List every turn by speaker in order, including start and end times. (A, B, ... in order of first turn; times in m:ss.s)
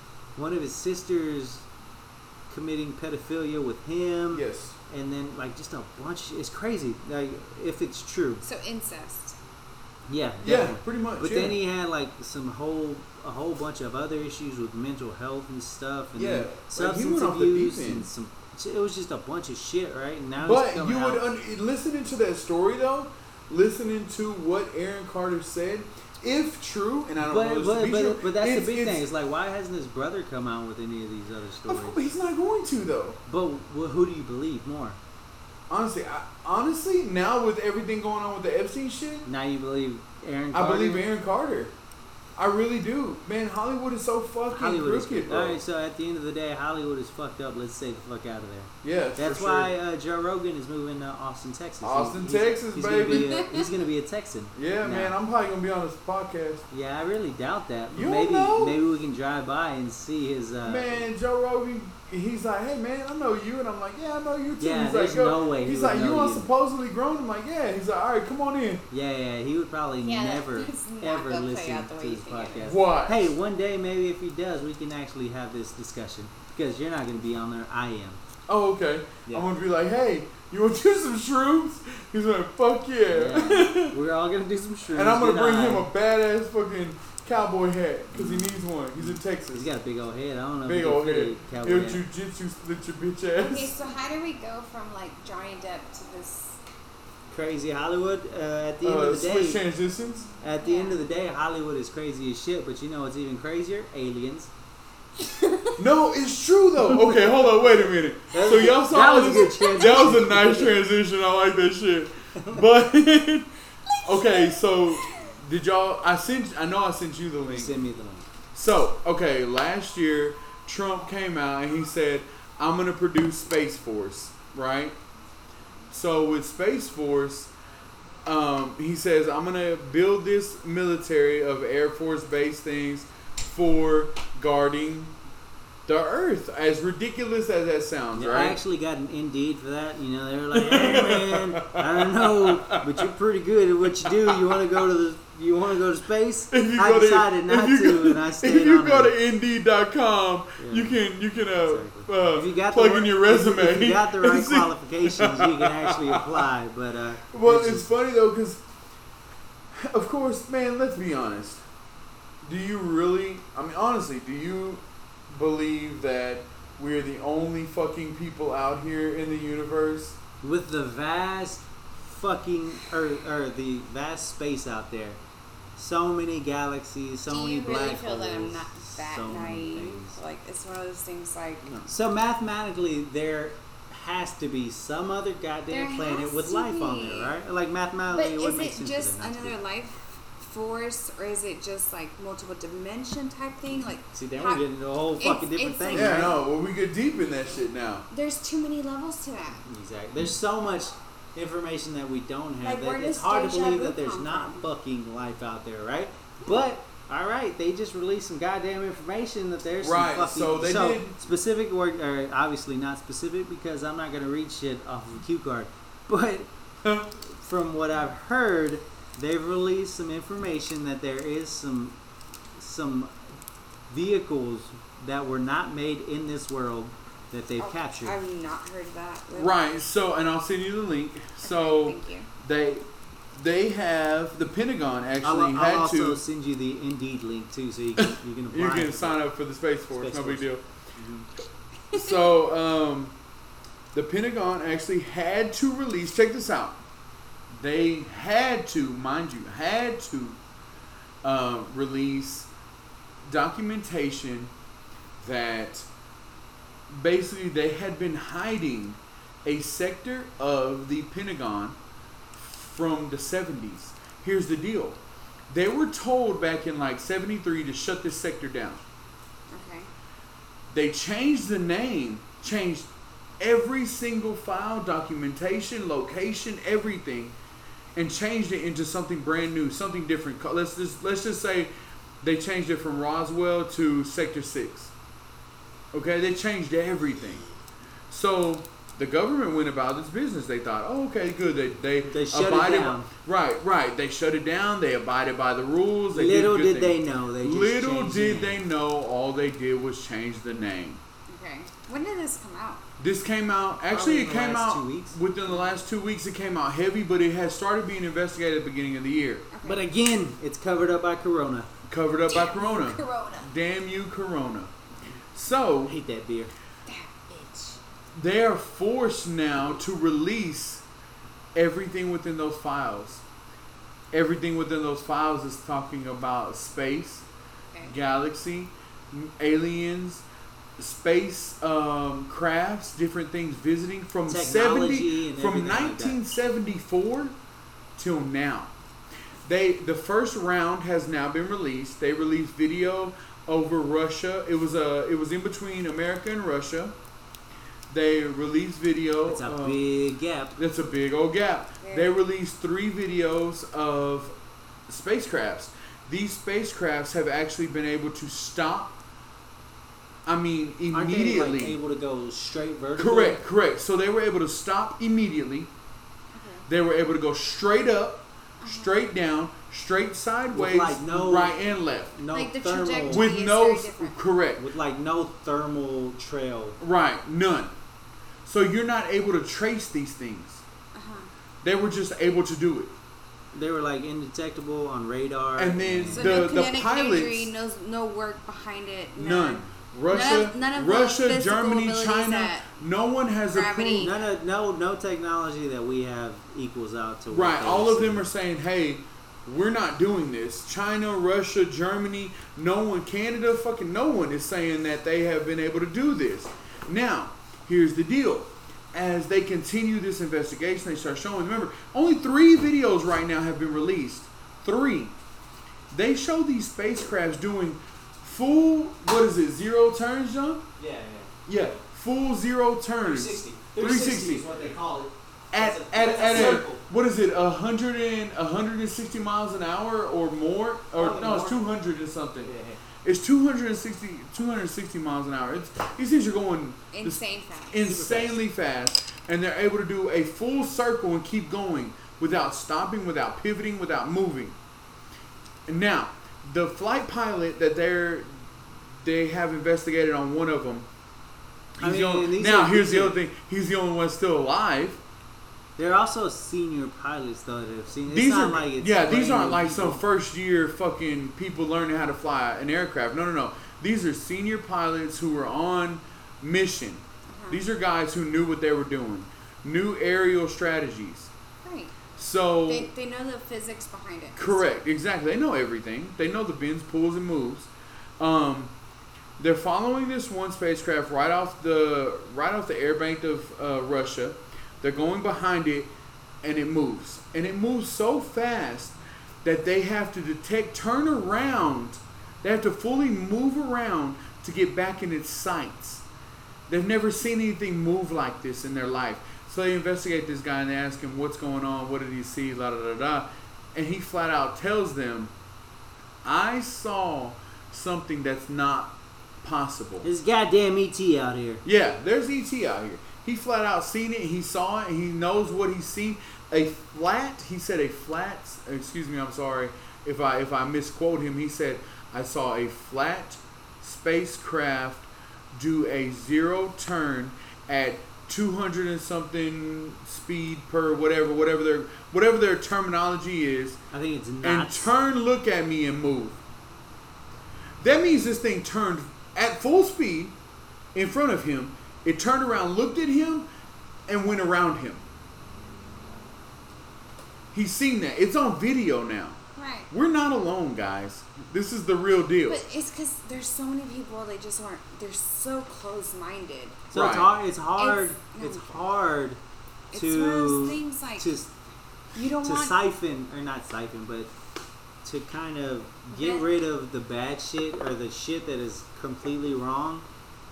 0:00.4-0:01.6 A
0:02.5-0:08.4 A
0:04.3-0:04.8 B
0:08.4-0:09.4 C
0:10.1-0:21.2 A
0:10.4-0:11.6 B
0:16.2-0:18.1 B
0:20.4-0:29.0 B
0:27.2-0:32.0 A
0:31.7-0:33.2 B
0:33.3-0:35.0 A
0:35.7-0:39.3 B
0:39.2-0:41.1 A
0:40.5-0:41.7 B
0:42.4-0:45.6 B
0:44.5-0:55.1 A
0:48.8-0:49.7 B
0:51.8-0:53.5 B
0:53.1-0:53.6 C
0:54.5-0:56.6 B
0:56.7-1:01.0 A
0:57.9-0:58.8 B
1:00.6-1:08.8 B
1:04.6-1:06.5 A
1:08.9-1:18.2 A
1:10.0-1:12.6 C
1:12.6-1:13.3 B
1:18.5-1:24.0 B
1:23.1-1:25.9 A
1:24.9-1:29.7 B
1:29.0-1:32.0 A
1:30.6-1:33.7 B
1:33.4-1:36.6 C
1:37.3-1:39.6 A
1:38.8-1:40.3 B
1:40.4-1:44.5 A
1:40.6-1:41.0 C
1:45.2-1:45.8 C
1:45.8-1:53.5 B
1:48.3-1:50.8 A
1:52.4-1:52.6 A
1:53.9-1:55.3 C
1:54.0-1:57.7 B
1:57.5-1:58.3 A
1:58.5-2:05.0 B
2:05.9-2:07.5 B
2:08.2-2:15.2 B
2:15.8-2:18.6 B
2:18.1-2:29.1 A
2:20.5-2:23.1 B
2:24.2-2:24.5 B
2:26.5-2:36.4 B
2:30.6-2:31.0 A
2:31.6-2:37.9 A
2:37.3-2:38.6 B
2:39.7-2:41.6 B
2:42.4-2:50.2 B
2:50.4-2:55.2 A
2:55.8-3:00.2 A
2:57.3-3:01.8 C
3:01.8-3:09.6 A
3:05.7-3:07.3 C
3:08.1-3:14.6 C
3:14.1-3:16.4 A
3:15.2-3:16.3 C
3:15.9-3:18.1 B
3:18.1-3:19.6 C
3:19.6-3:36.5 A
3:22.6-3:24.6 C
3:29.8-3:31.2 B
3:37.3-3:42.0 A
3:42.6-3:43.1 A
3:43.9-3:48.2 A
3:47.6-3:49.5 C
3:49.3-3:56.2 B
3:51.4-3:52.3 C
3:55.2-3:59.2 A
3:58.0-4:00.6 B
3:59.9-4:01.3 A
4:01.9-4:02.2 C
4:01.9-4:03.1 B
4:03.9-4:06.8 B
4:07.5-4:10.4 B
4:11.2-4:12.5 B
4:13.2-4:14.5 B
4:15.2-4:15.9 B
4:16.9-4:21.8 B
4:22.3-4:28.8 B
4:29.5-4:29.9 C
4:30.7-4:37.4 B
4:37.9-4:41.7 B
4:42.2-4:44.9 B
4:45.9-4:47.4 B
4:48.1-5:01.0 B
4:52.1-4:53.1 A
4:56.1-4:58.6 A
5:01.3-5:02.8 C
5:03.0-5:09.4 B
5:03.9-5:05.2 A
5:09.5-5:09.8 C
5:09.6-5:11.7 A
5:11.9-5:14.7 B
5:12.3-5:13.5 C
5:15.3-5:15.9 B
5:15.8-5:16.5 A
5:16.9-5:17.8 C
5:18.1-5:20.8 B
5:21.5-5:23.2 B
5:24.1-5:27.3 B
5:27.8-5:30.2 B
5:30.8-5:37.4 B
5:34.3-5:36.2 A
5:38.0-5:38.7 B
5:39.4-5:46.9 B
5:47.9-5:49.8 B
5:49.3-5:50.6 A
5:50.6-5:54.3 B
5:51.8-5:52.2 C
5:54.9-5:59.0 B
6:00.2-6:01.8 B
6:00.9-6:03.4 A
6:03.0-6:05.7 B
6:06.3-6:06.6 C
6:06.7-6:12.1 B
6:08.6-6:09.0 C
6:10.5-6:11.6 A
6:12.1-6:13.3 A
6:12.3-6:14.2 C
6:13.0-6:14.6 B
6:14.6-6:16.8 A
6:16.8-6:17.7 B
6:18.4-6:20.6 B
6:20.9-6:21.3 C
6:21.6-6:22.9 B
6:23.5-6:26.4 A
6:25.6-6:27.5 B
6:26.1-6:32.7 C
6:29.2-6:34.1 B
6:33.5-6:34.2 C
6:34.0-6:38.3 A
6:37.3-6:55.1 B
6:55.9-7:00.7 B
7:00.8-7:01.3 A
7:01.5-7:04.4 B
7:03.0-7:06.8 A
7:05.5-7:12.5 B
7:11.0-7:11.7 A
7:12.4-7:12.8 A
7:13.0-7:24.6 B
7:16.9-7:17.8 C
7:17.8-7:18.4 A
7:25.7-7:28.4 B
7:29.0-7:30.9 B
7:31.8-7:35.0 B
7:31.8-7:33.2 A
7:35.8-7:40.0 A
7:38.1-7:51.3 B
7:47.3-7:47.6 C
7:51.6-7:52.0 C
7:52.2-7:52.9 B
7:52.6-7:54.6 C
7:54.4-7:58.7 B
7:59.4-8:05.9 B
8:06.4-8:16.0 B
8:16.7-8:25.3 B
8:26.2-8:30.1 B
8:30.0-8:31.6 A
8:31.6-8:53.8 B
8:53.9-8:54.9 A
8:54.4-8:56.4 B
8:57.8-9:00.4 B
9:00.9-9:03.5 B
9:04.1-9:05.0 B
9:07.5-9:09.4 B
9:09.6-9:09.9 C
9:09.9-9:12.6 B
9:12.5-9:16.8 C
9:16.9-9:19.4 A
9:16.9-9:17.3 B
9:17.8-9:18.8 C
9:19.9-9:21.3 C
9:19.9-9:21.5 A
9:22.1-9:22.8 C
9:22.4-9:24.3 A
9:25.0-9:30.0 A
9:26.1-9:26.5 C